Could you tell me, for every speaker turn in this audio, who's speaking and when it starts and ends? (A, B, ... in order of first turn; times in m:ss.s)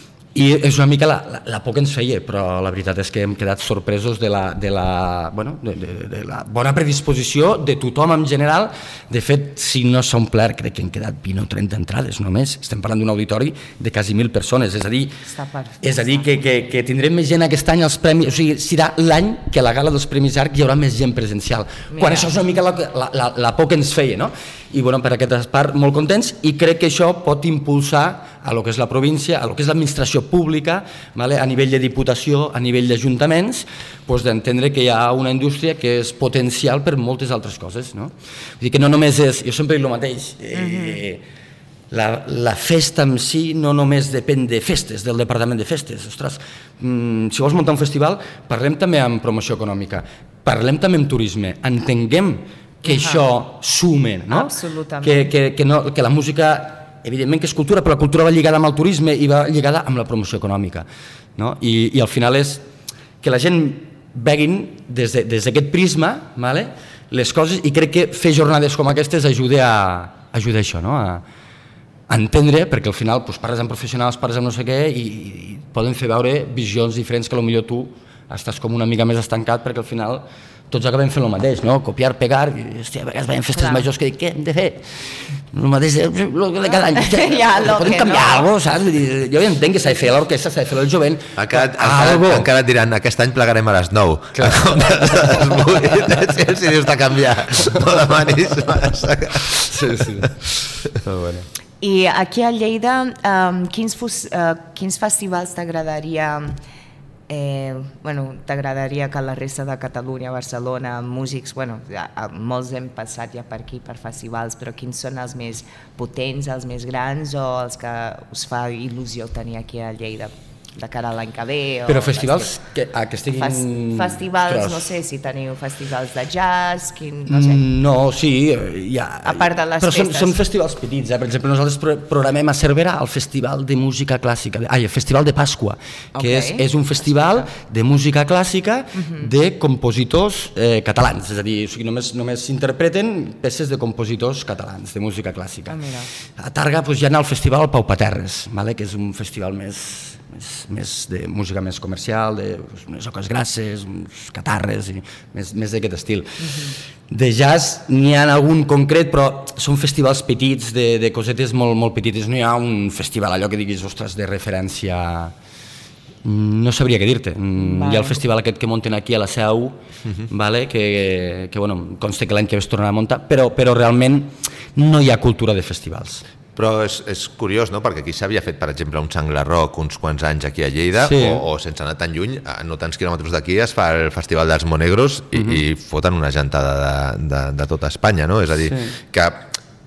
0:00.3-0:15.2 A
0:15.2-0:16.4 B
0:15.8-0:41.2 A
0:21.9-0:22.4 B
0:40.5-0:41.0 B
0:41.9-1:00.8 A
0:52.8-0:53.2 B
0:54.3-0:55.3 B
1:01.4-1:02.6 A
1:03.2-1:11.2 A
1:12.1-1:32.5 A
1:23.5-1:23.9 B
1:26.9-1:28.5 B
1:31.4-1:39.7 C
1:34.3-1:35.8 A
1:39.7-1:41.5 A
1:41.8-1:46.6 B
1:47.3-2:02.5 B
2:01.9-2:04.9 A
2:03.3-2:07.6 B
2:07.3-2:25.8 A
2:09.2-2:10.4 B
2:16.1-2:16.6 B
2:19.0-2:19.3 B
2:25.7-2:26.1 B
2:26.4-2:36.6 A
2:36.4-2:36.8 B
2:37.1-2:45.3 A
2:46.2-2:49.8 A
2:47.6-2:48.2 B
2:50.3-2:56.2 A
2:56.6-3:09.5 C
3:01.0-3:01.4 A
3:05.3-3:05.6 A